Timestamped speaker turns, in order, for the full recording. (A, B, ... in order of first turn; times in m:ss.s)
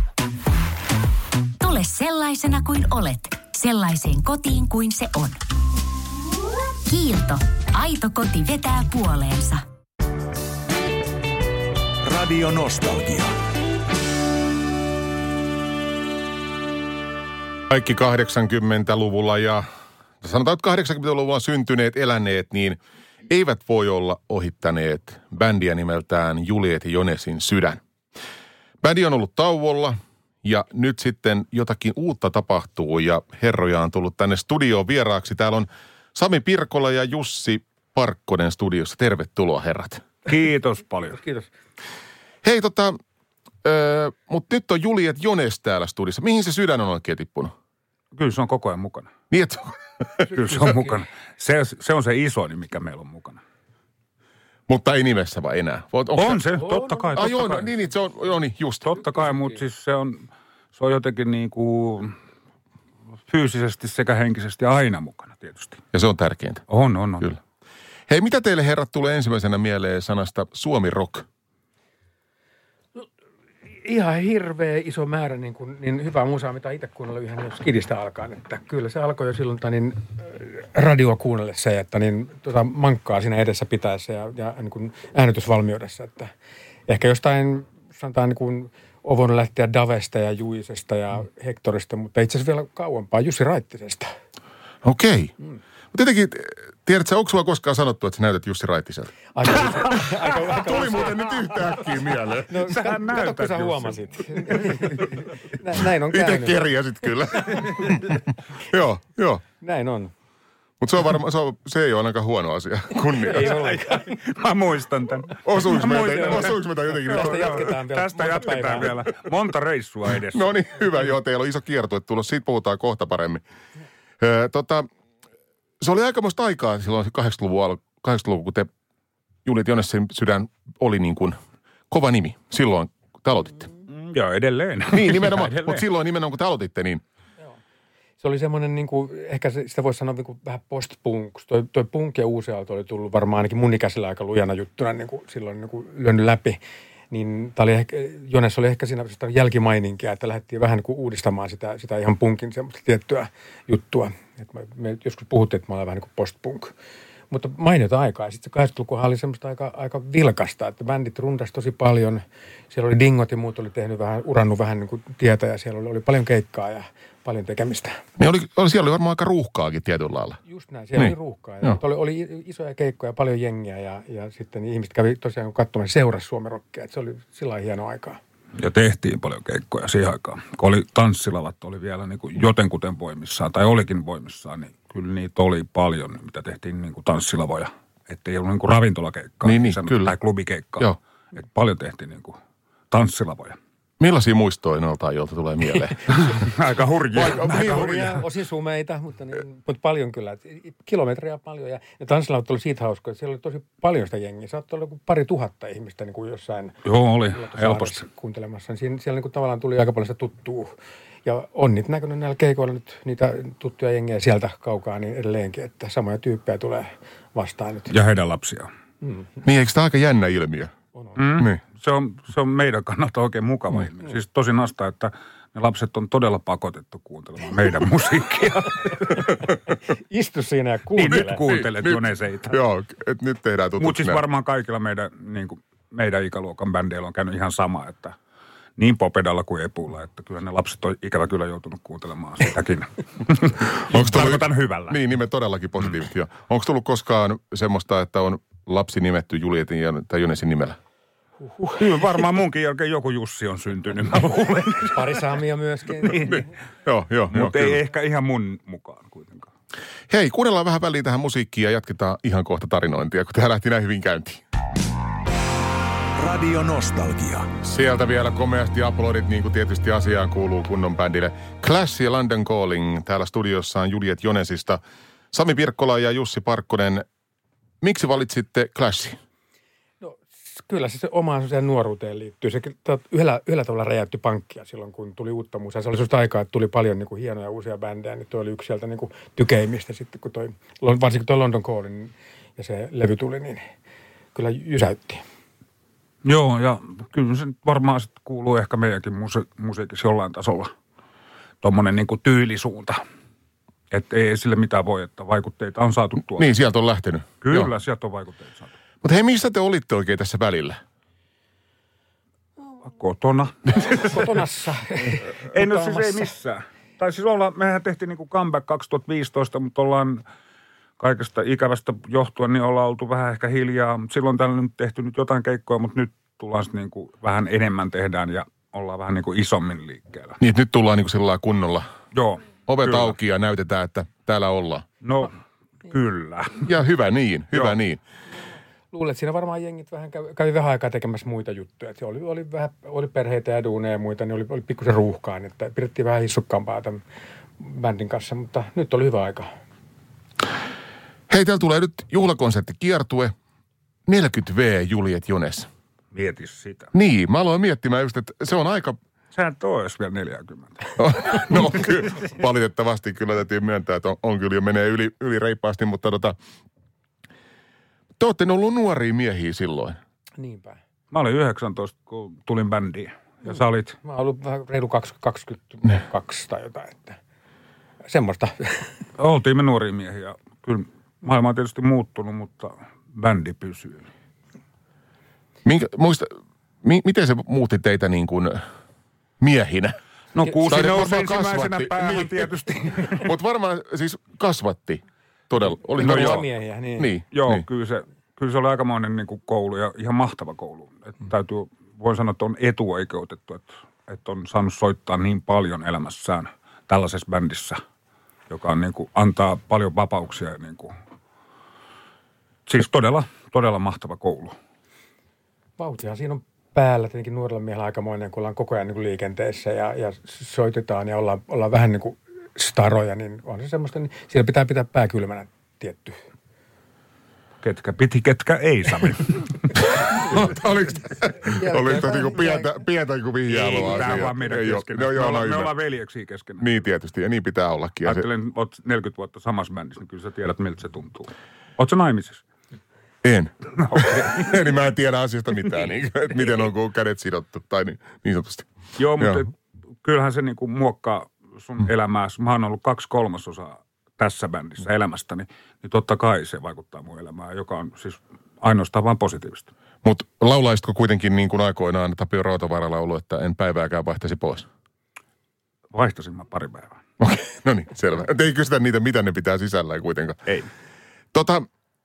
0:01.6-0:05.4 A
0:06.9-0:09.6 A
0:12.1-0:13.3 B
0:17.7-0:19.6 C
0:20.2-0:27.8 C
0:28.8-0:40.0 C
0:40.3-0:41.2 D
0:41.0-0:41.5 E
0:42.4-0:43.0 C
0:43.6-0:47.5 C
0:48.1-0:49.1 D
0:49.3-0:50.3 C
0:50.3-0:51.0 E
0:50.4-0:53.4 D
0:54.7-0:56.4 C
0:56.2-0:57.7 D
0:56.8-0:57.3 E
0:57.1-0:59.0 C
0:58.8-1:02.2 D
1:03.3-1:05.8 D
1:05.9-1:06.6 C
1:06.7-1:07.3 D
1:08.1-1:11.3 C
1:13.7-1:26.3 E
1:26.9-1:34.1 E
1:34.8-1:35.3 C
1:35.9-1:42.7 C
1:39.3-1:41.8 E
1:42.5-1:46.6 E
1:42.7-1:45.2 D
1:46.1-1:49.4 C
1:49.6-1:50.1 E
1:50.8-1:53.6 C
1:53.2-1:54.1 E
1:53.3-2:00.5 D
1:55.4-1:57.6 C
1:55.8-1:59.0 E
2:00.3-2:03.4 C
2:04.2-2:04.9 C
2:05.8-2:08.7 C
2:09.4-2:11.4 C
2:11.9-2:13.7 C
2:13.9-2:15.8 D
2:14.9-2:17.0 C
2:18.2-2:26.6 E
2:27.1-2:36.7 E
2:37.3-2:48.0 E
2:48.2-2:50.4 C
2:50.4-2:58.2 E
2:51.0-2:51.8 C
2:58.6-3:12.4 D
3:09.4-3:10.2 C
3:12.9-3:13.6 D
3:14.0-3:16.0 C
3:16.1-3:18.2 D
3:17.1-3:18.2 C
3:17.4-3:30.7 E
3:26.8-3:28.0 D
3:31.2-3:37.9 E
3:37.9-3:38.7 D
3:39.0-3:39.3 E
3:39.4-3:40.7 C
3:41.2-3:49.2 D
3:49.9-3:51.4 E
3:51.0-3:52.6 D
3:51.1-3:54.2 C
3:53.8-3:58.2 D
3:58.8-4:05.0 D
4:03.9-4:10.8 C
4:11.4-4:11.9 E
4:11.8-4:15.2 D
4:14.9-4:16.4 E
4:16.1-4:16.5 D
4:16.2-4:17.8 C
4:17.3-4:19.5 D
4:20.1-4:24.4 C
4:26.2-4:27.5 B
4:27.6-4:34.8 C
4:35.3-4:37.0 C
4:37.8-4:39.2 C
4:40.0-4:53.7 E
4:54.3-4:55.2 E
4:56.2-5:00.7 D
5:01.6-5:03.0 D
5:03.9-5:06.5 D
5:06.4-5:07.7 C
5:07.4-5:08.7 D
5:09.0-5:10.8 C
5:12.9-5:14.4 D
5:13.9-5:16.3 E
5:15.2-5:20.2 D
5:21.0-5:30.4 D
5:30.4-5:31.9 C
5:32.1-5:33.2 D
5:32.7-5:34.8 C
5:35.0-5:35.3 D
5:35.9-5:36.7 D
5:36.6-5:38.0 C
5:37.5-5:37.8 D
5:38.9-5:47.0 E
5:47.6-5:49.5 E
5:51.3-5:53.3 C
5:54.1-5:55.7 C
5:56.1-5:56.9 D
5:56.9-5:59.0 C
5:59.3-6:01.0 D
6:01.0-6:06.4 C
6:08.2-6:10.0 C
6:10.4-6:10.8 E
6:11.1-6:14.0 D
6:14.0-6:17.2 E
6:18.0-6:18.9 E
6:19.2-6:24.1 D
6:25.6-6:28.6 C
6:29.4-6:30.0 C
6:30.3-6:33.3 D
6:30.7-6:32.5 C
6:33.2-6:37.6 C
6:36.0-6:37.1 E
6:36.0-6:36.4 D
6:37.3-6:47.8 D
6:48.5-6:50.9 D
6:52.7-6:54.6 D
6:55.8-7:06.2 E
7:07.6-7:09.8 D
7:10.0-7:15.8 C
7:11.5-7:12.8 E
7:13.5-7:16.7 D
7:16.6-7:18.3 C
7:18.0-7:22.4 D
7:23.2-7:29.4 C
7:23.8-7:24.5 D
7:29.0-7:29.5 D
7:30.0-7:39.7 D
7:40.0-7:44.7 C
7:45.9-7:47.0 D
7:47.2-7:50.4 C
7:51.3-7:51.6 C